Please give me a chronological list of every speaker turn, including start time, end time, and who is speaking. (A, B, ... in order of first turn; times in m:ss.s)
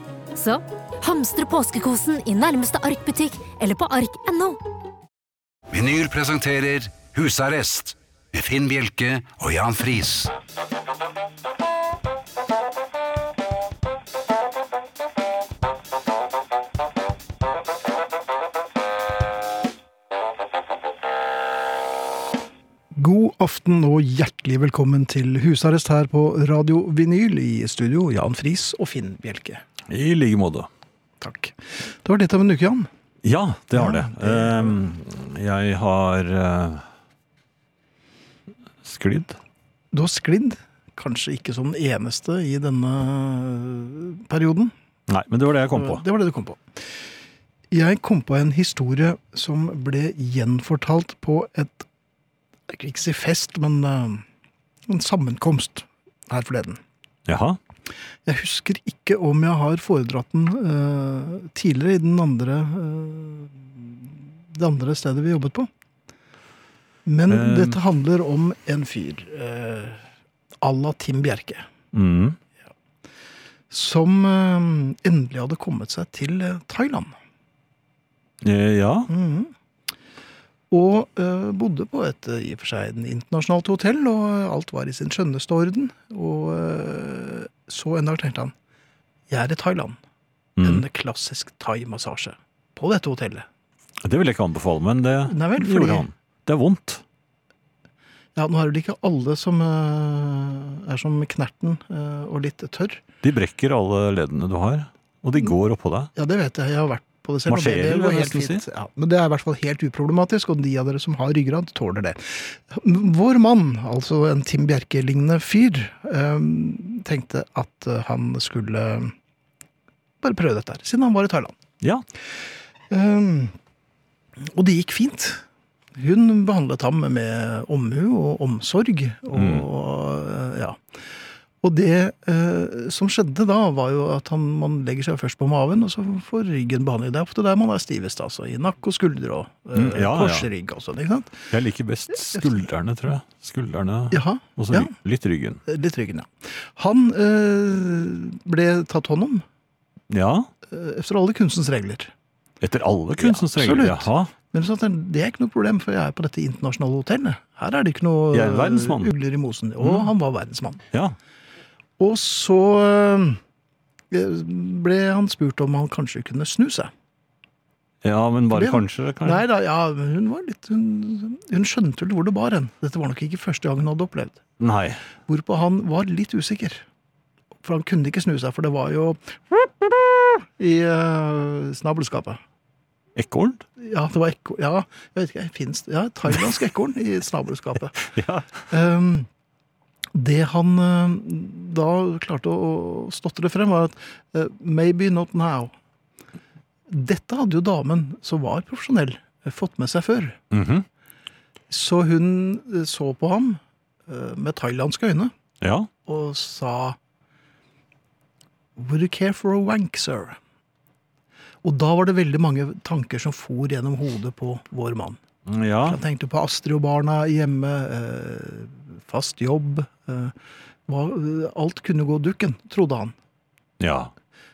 0:00.3-0:04.6 A
0:05.7-0:10.3 B
0:22.9-0:29.6 C
0:29.9-0:30.7 D
0:31.2-0:32.9 C
0:33.2-0:36.8 D
0:33.7-0:34.7 C
0:38.8-0:39.4 D
0:39.9-0:44.7 C
0:45.1-0:46.0 D
0:45.7-0:46.6 C
0:47.7-0:51.8 C
0:52.7-0:54.2 C
0:54.9-0:56.8 C
0:57.2-0:57.6 D
0:58.2-1:05.7 C
1:07.0-1:10.0 C
1:07.3-1:07.8 D
1:10.6-1:11.7 C
1:11.9-1:12.4 D
1:13.7-1:17.1 C
1:18.4-1:19.1 D
1:19.1-1:19.5 C
1:20.7-1:28.5 C
1:29.3-1:30.0 C
1:30.6-1:30.8 D
1:30.6-1:33.4 C
1:34.0-1:37.0 D
1:35.2-1:36.1 C
1:38.3-1:43.0 C
1:43.2-1:46.1 D
1:46.2-1:59.1 C
1:47.5-1:48.6 D
2:00.2-2:01.5 C
2:02.9-2:03.5 C
2:04.4-2:05.4 C
2:06.0-2:10.8 C
2:09.3-2:09.6 D
2:11.6-2:21.4 C
2:19.7-2:20.5 D
2:21.5-2:25.6 D
2:22.3-2:22.6 C
2:24.1-2:24.9 C
2:25.6-2:29.4 C
2:30.1-2:30.5 D
2:30.6-2:32.1 C
2:32.6-2:34.3 D
2:33.2-2:40.8 C
2:38.3-2:39.1 D
2:39.8-2:40.1 D
2:42.0-2:43.4 C
2:44.1-2:46.9 C
2:48.0-2:49.4 D
2:48.5-2:54.4 C
2:54.6-2:55.0 D
2:55.3-2:56.8 C
2:57.6-3:02.4 C
3:03.1-3:03.6 D
3:03.8-3:08.1 C
3:08.1-3:08.5 D
3:08.7-3:09.3 C
3:10.1-3:15.7 C
3:16.9-3:20.4 C
3:20.5-3:20.8 D
3:21.7-3:25.3 C
3:25.6-3:25.9 D
3:26.0-3:27.0 C
3:28.8-3:30.4 C
3:31.6-3:35.2 C
3:35.5-3:36.0 D
3:35.8-3:40.3 C
3:40.9-3:43.1 C
3:43.8-3:44.1 D